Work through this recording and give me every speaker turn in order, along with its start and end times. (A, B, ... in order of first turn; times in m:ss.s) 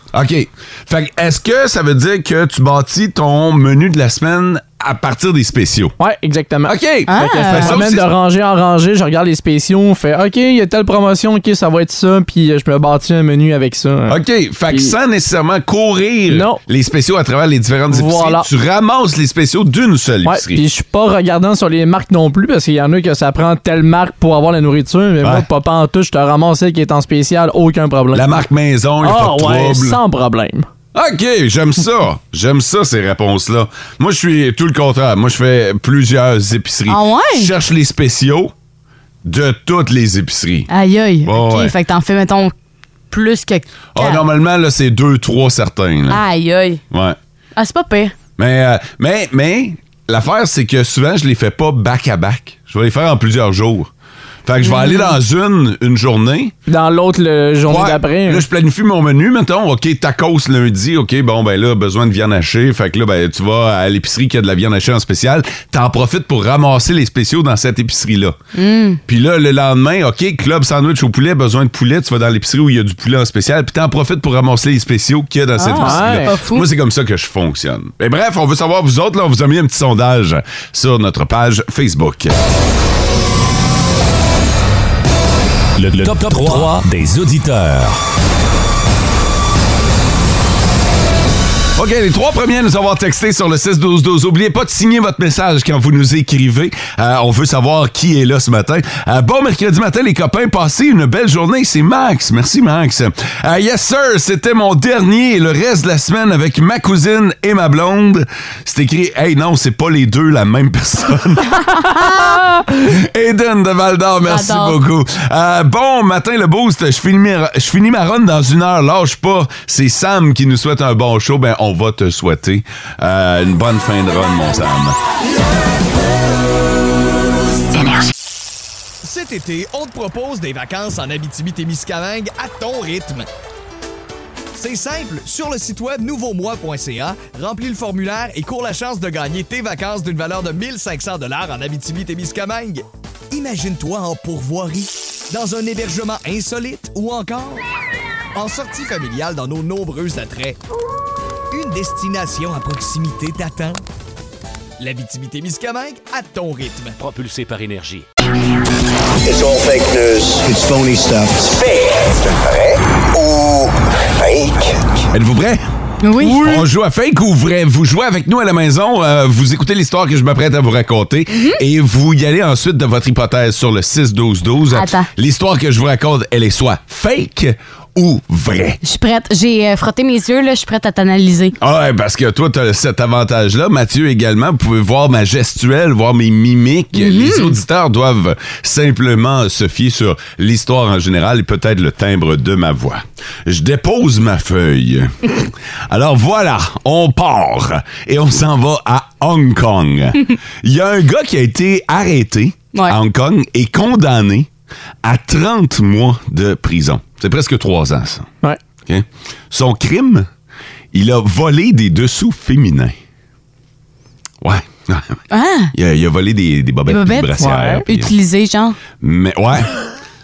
0:00.1-0:06.0 A
0:06.0-0:14.2 B
0:06.6-0:08.1 A
0:07.1-0:07.7 C
0:14.1-0:20.6 A
0:16.3-0:16.6 B
0:17.9-0:18.5 B
0:20.2-0:28.3 B
0:25.2-0:25.4 A
0:28.1-0:30.0 A
0:29.0-0:30.6 B
0:30.9-0:38.5 A
0:36.9-0:37.5 C
0:39.2-0:40.7 A
0:40.7-0:42.5 C
0:41.2-0:41.7 A
0:43.1-0:44.2 C
0:43.9-0:46.2 A
0:46.1-0:46.8 C
0:46.9-0:47.2 A
0:47.6-0:48.1 C
0:48.4-0:53.9 A
0:54.4-0:56.5 A
0:54.6-0:55.2 C
0:56.7-0:58.4 B
0:57.7-1:08.4 A
1:08.5-1:09.0 C
1:09.0-1:22.3 A
1:15.6-1:16.7 C
1:15.8-1:16.3 B
1:25.8-1:28.0 D
1:26.3-1:26.7 A
1:31.8-2:05.0 A
1:51.7-1:52.3 C
1:54.2-1:54.8 C
2:09.0-2:13.3 E
2:14.5-2:27.6 E
2:28.3-2:30.6 E
2:31.5-2:33.8 E
2:34.8-2:37.0 E
2:37.0-2:38.0 D
2:39.2-2:45.0 F
2:45.1-2:45.6 A
2:46.0-2:46.6 C
2:46.2-2:58.8 A
2:51.3-2:51.6 C
2:54.7-2:55.1 C
2:58.8-3:01.6 C
3:01.6-3:24.5 A
3:06.9-3:07.6 C
3:25.0-3:28.3 A
3:28.8-3:30.3 A
3:30.9-3:32.9 A
3:34.4-3:35.2 A
3:35.3-3:35.7 C
3:35.7-3:38.1 A
3:36.9-3:38.8 C
3:37.4-3:37.8 B
3:39.0-3:39.7 A